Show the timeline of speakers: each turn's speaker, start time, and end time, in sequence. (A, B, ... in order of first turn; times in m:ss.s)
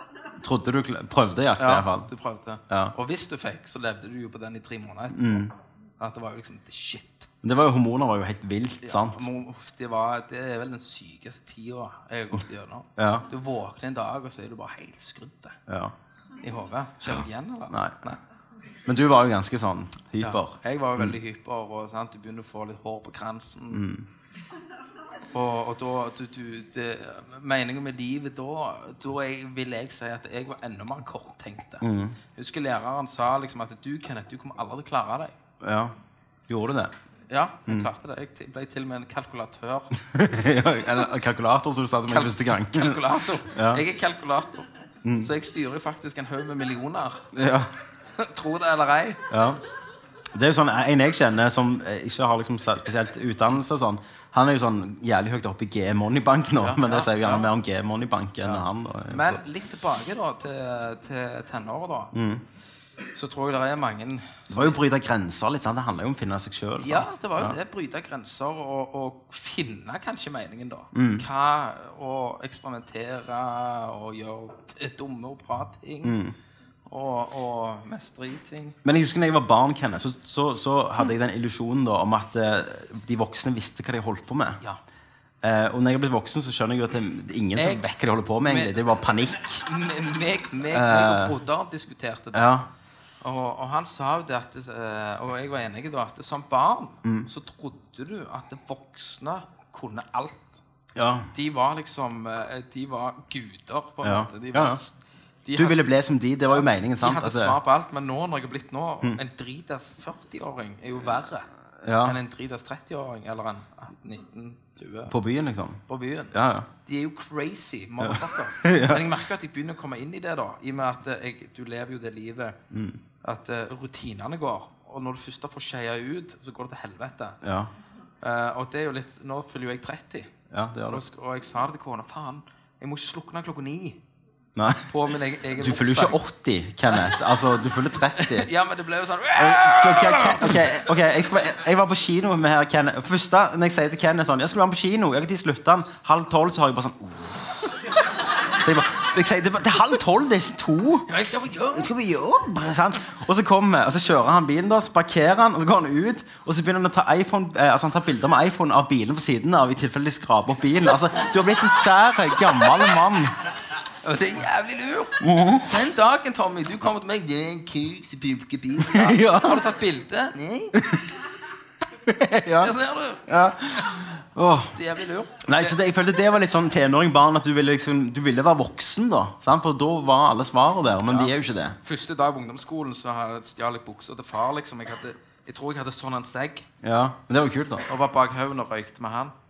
0:00.4-0:02.1 A
0:01.6-0:07.3 B
0:05.1-0:05.5 A
0:07.4-0:09.3 A
0:08.8-0:15.6 B
0:13.0-0:13.3 A
0:15.7-0:15.9 A
0:16.4-0:18.2 B
0:17.1-0:18.0 A
0:18.9-0:21.2 A
0:20.2-0:23.9 B
0:23.7-0:24.1 A
0:25.3-0:35.3 B
0:31.8-0:32.2 A
0:35.6-0:35.9 A
0:36.5-0:36.9 A
0:37.3-0:39.9 B
0:40.0-0:43.8 A
0:42.1-0:47.3 B
0:45.0-0:45.3 A
0:47.3-0:47.7 A
0:48.2-0:49.2 B
0:49.3-0:49.6 A
0:50.3-0:59.4 A
0:56.6-0:57.5 B
0:58.4-1:02.1 B
1:02.1-1:02.4 A
1:03.1-1:04.8 B
1:04.5-1:07.6 A
1:06.8-1:16.2 B
1:10.9-1:11.3 A
1:16.0-1:16.4 A
1:16.9-1:18.8 B
1:18.8-1:24.6 A
1:25.4-1:29.6 A
1:27.6-1:27.8 B
1:28.4-1:28.8 B
1:29.6-1:32.6 B
1:30.7-1:31.4 A
1:32.3-1:32.7 A
1:33.2-1:40.6 B
1:37.0-1:37.3 A
1:41.0-1:41.3 A
1:41.3-1:45.8 B
1:44.0-1:44.8 A
1:45.6-1:47.6 A
1:46.5-1:51.5 B
1:51.8-1:52.2 A
1:52.0-1:55.1 B
1:55.1-1:55.8 A
1:55.9-2:02.6 B
1:56.3-1:56.7 A
1:58.0-1:59.1 A
2:02.7-2:03.0 A
2:03.2-2:07.4 B
2:07.4-2:07.7 A
2:08.2-2:10.3 B
2:10.5-2:11.0 A
2:10.9-2:14.0 B
2:14.6-2:14.9 A
2:14.9-2:16.2 B
2:15.6-2:18.5 A
2:18.2-2:20.7 B
2:19.4-2:27.6 A
2:28.5-2:31.1 A
2:31.1-2:31.9 B
2:31.7-2:43.3 A
2:44.0-2:50.8 B
2:45.2-2:45.7 A
2:48.8-2:49.6 A
2:50.8-2:51.1 A
2:52.0-2:52.8 A
2:52.6-2:53.3 B
2:53.3-2:54.8 A
2:54.8-2:55.8 B
2:55.5-3:01.8 A
3:01.1-3:06.7 B
3:06.8-3:07.9 A
3:07.9-3:09.3 B